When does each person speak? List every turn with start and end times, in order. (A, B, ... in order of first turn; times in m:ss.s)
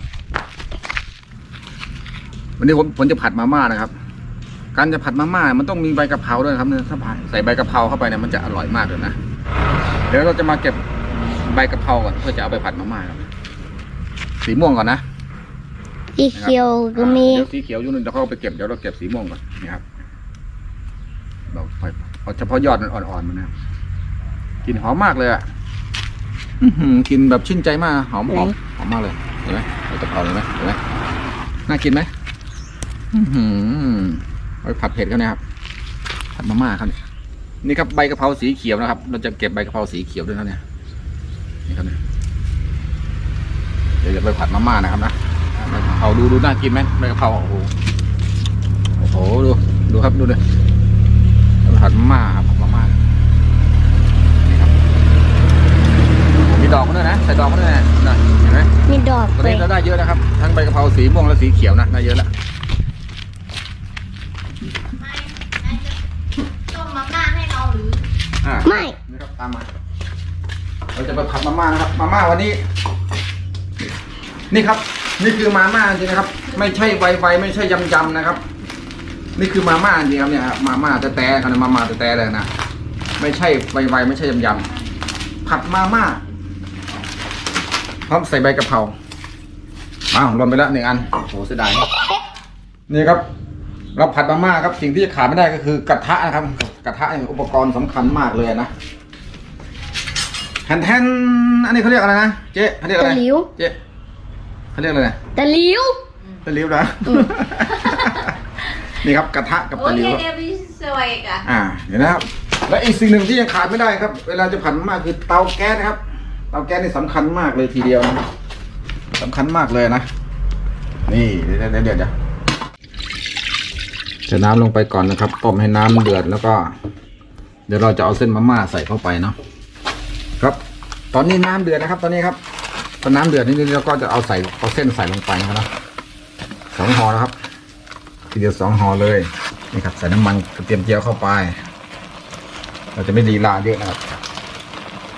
0:02.6-0:03.9 A
0:04.7-0:09.2 A
0:10.1-0:10.8 A
0:11.4-0:13.3 A
0:14.4-0:15.0 A
0:16.1-0:17.4 B
0:16.3-0:19.8 A
0:21.5-0:23.5 A
0:24.6-0:25.4 A
0:26.6-0:30.8 A
0:31.7-0:32.1 A
0:33.1-0:35.4 A
0:36.4-0:37.0 A
0:37.6-0:40.6 A
0:41.7-0:42.0 A
0:44.0-0:47.7 A
0:49.0-0:50.4 A
0:51.6-0:53.0 A
0:54.4-0:54.7 A
0:56.4-0:58.7 A
0:58.9-0:59.7 B
0:59.4-1:02.3 A
1:05.1-1:05.8 C
1:06.7-1:08.0 C
1:08.4-1:09.7 A
1:08.6-1:09.0 B
1:10.9-1:12.6 A
1:14.5-1:18.4 A
1:19.4-1:22.5 A
1:23.2-1:24.7 A
1:25.4-1:26.2 A
1:28.1-1:28.9 A
1:30.1-1:31.9 A
1:32.9-1:33.2 A
1:33.9-1:38.7 A
1:40.6-1:43.8 A
1:43.0-1:43.5 B
1:44.7-1:45.2 A
1:45.3-1:46.0 B
1:46.4-1:48.3 A
1:48.9-1:50.2 A
1:49.7-1:51.4 C
1:51.4-1:56.0 A
1:56.5-1:58.2 A
1:59.2-2:00.1 A
2:01.1-2:02.1 A
2:04.3-2:06.7 A
2:07.7-2:09.4 A
2:11.1-2:12.4 A
2:13.0-2:15.7 A
2:16.7-2:17.3 A
2:18.3-2:21.6 A
2:22.9-2:24.0 A